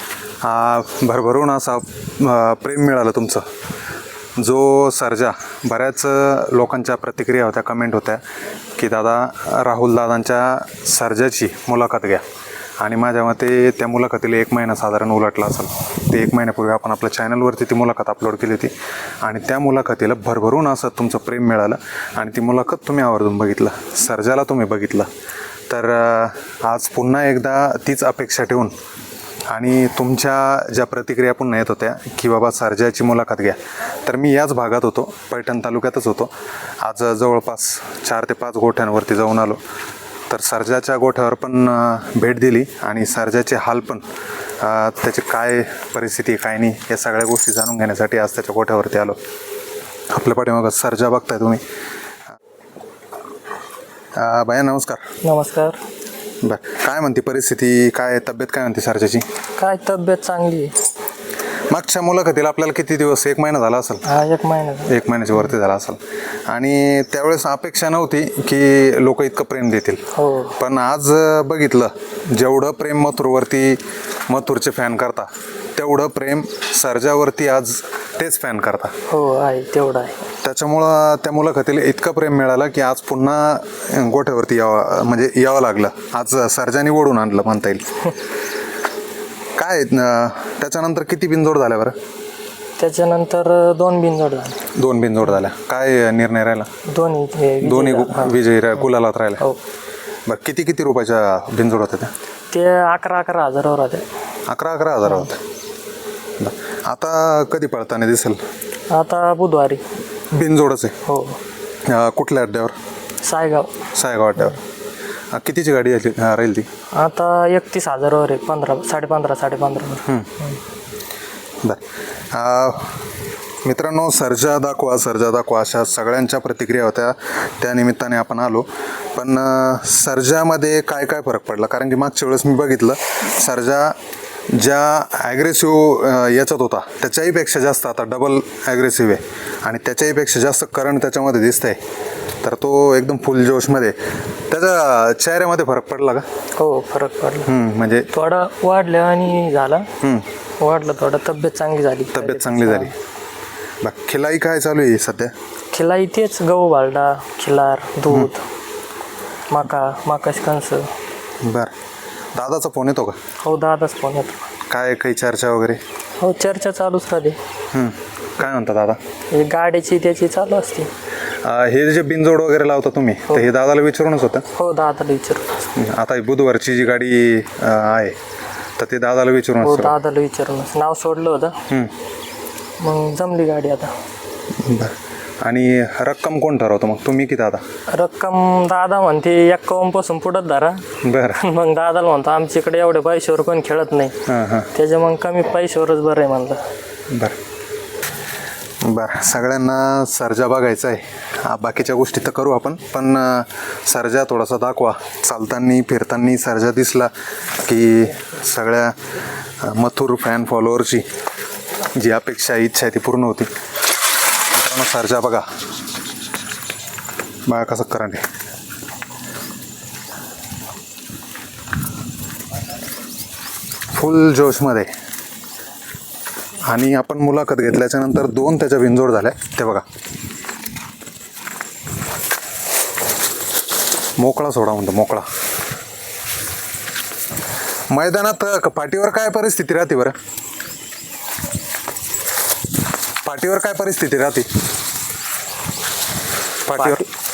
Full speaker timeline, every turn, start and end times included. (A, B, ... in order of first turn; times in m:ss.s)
0:00.4-0:03.4 A
0:04.4-0:08.2 A
0:08.8-0:12.2 A
0:12.8-0:25.1 A
0:25.7-0:28.7 A
0:29.5-0:39.6 A
0:40.3-0:44.0 A
0:44.6-0:49.2 A
0:50.1-0:51.6 A
0:54.2-0:55.0 A
0:55.2-0:55.8 B
0:56.4-0:59.2 A
0:59.6-1:00.7 B
1:01.7-1:04.0 A
1:04.0-1:04.9 B
1:04.9-1:10.0 A
1:10.2-1:10.6 B
1:10.6-1:18.9 A
1:19.1-1:20.2 B
1:20.4-1:27.9 A
1:29.6-1:32.0 A
1:32.8-1:34.6 B
1:34.7-1:36.7 A
1:36.9-1:38.4 B
1:37.6-1:39.4 A
1:40.2-1:42.1 A
1:42.5-1:44.0 B
1:44.5-1:45.4 A
1:46.4-1:48.4 A
1:48.9-1:49.8 B
1:50.3-1:51.0 A
1:51.0-1:51.4 B
1:51.8-1:52.8 A
1:53.2-1:53.7 B
1:53.9-1:54.6 A
1:55.3-1:56.7 A
1:56.9-2:00.1 B
2:02.3-2:02.9 A
2:03.6-2:14.0 A
2:14.5-2:21.8 A
2:22.4-2:24.0 A
2:24.5-2:26.2 A
2:26.6-2:27.5 B
2:27.5-2:28.1 A
2:28.1-2:29.9 B
2:30.0-2:30.3 A
2:30.6-2:32.9 B
2:32.1-2:32.9 A
2:33.8-2:35.3 A
2:35.7-2:38.4 B
2:39.5-2:40.9 B
2:41.4-2:41.7 A
2:42.3-2:43.2 A
2:43.4-2:44.4 B
2:44.7-2:45.8 A
2:46.2-2:47.4 B
2:47.7-2:49.0 A
2:49.3-2:50.9 B
2:51.4-2:54.4 A
2:54.6-2:55.6 B
2:55.8-2:58.2 A
2:58.8-2:59.9 A
2:59.6-3:01.6 B
3:02.8-3:03.9 B
3:04.6-3:07.6 A
3:07.9-3:10.8 B
3:11.0-3:11.4 A
3:11.4-3:14.1 B
3:14.3-3:14.7 A
3:14.7-3:16.6 B
3:17.1-3:17.4 A
3:18.8-3:29.0 A
3:29.6-3:31.1 A
3:31.9-3:33.5 A
3:34.5-3:35.5 A
3:37.5-3:38.2 A
3:43.9-3:44.9 A
3:46.7-3:49.8 A
3:54.2-3:55.2 A
3:57.9-4:00.2 A
4:03.2-4:04.5 A
4:06.6-4:07.0 A
4:06.7-4:07.1 B